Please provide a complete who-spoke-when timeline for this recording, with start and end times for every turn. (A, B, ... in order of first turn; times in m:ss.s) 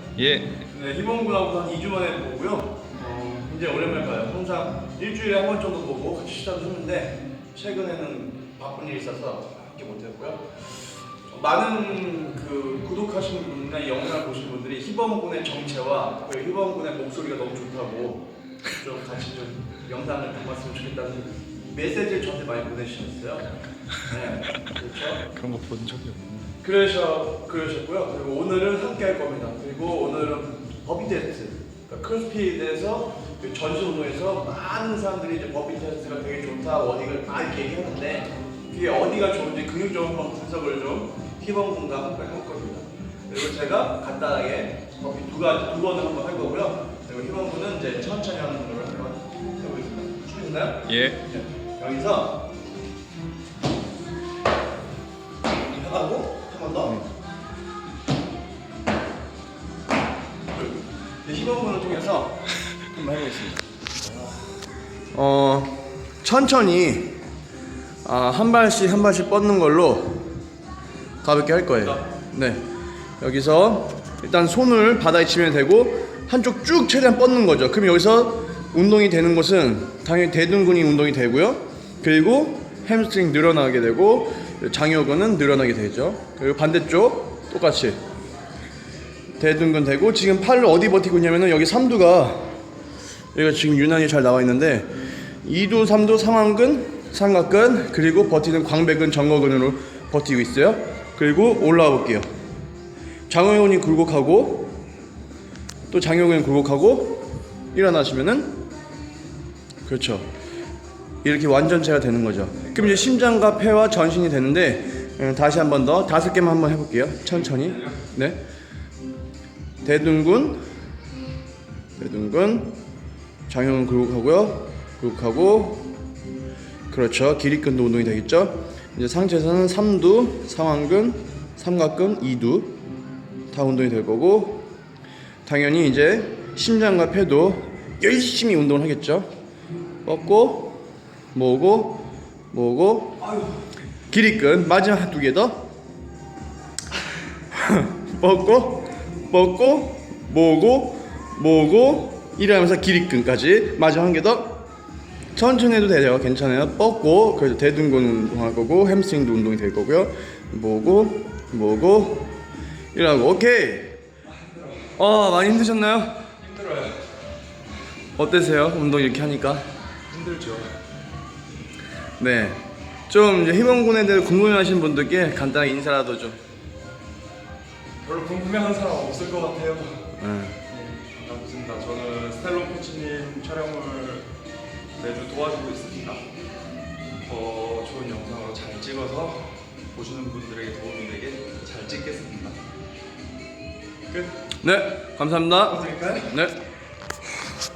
0:00.2-0:00.6 A
0:00.5-0:25.3 B
0:25.2-0:26.5 A
0:26.6-0:52.4 B
0:50.9-0:51.2 A
0:55.4-0:57.1 B
1:00.5-1:03.7 B
1:05.1-1:07.2 B
1:08.0-1:10.3 B
1:11.2-1:12.6 B
1:13.2-1:28.0 B
1:29.4-1:32.5 B
1:33.4-1:34.9 B
1:35.4-1:42.3 B
1:43.3-1:44.7 B
1:45.9-1:48.6 B
1:49.9-1:50.3 B
1:51.2-1:58.4 B
1:52.8-1:53.1 A
1:59.8-2:00.6 B
2:02.0-2:02.8 B
2:03.5-2:05.9 B
2:06.9-2:12.8 B
2:13.5-2:14.7 B
2:15.5-2:19.3 B
2:20.0-2:20.8 B
2:21.3-2:23.3 B
2:24.1-2:25.7 B
2:27.5-2:34.6 B
2:35.4-2:42.3 B
2:43.0-2:44.0 B
2:44.4-2:44.9 A
2:45.0-2:46.3 B
2:46.4-2:47.0 A
2:48.2-2:49.6 B
2:50.1-2:50.7 A
2:52.2-2:56.4 B
2:58.0-3:00.1 A
3:00.2-3:00.6 B
3:00.7-3:04.3 A
3:05.0-3:06.2 A
3:07.2-3:12.6 A
3:14.6-3:16.6 B
3:15.7-3:16.3 A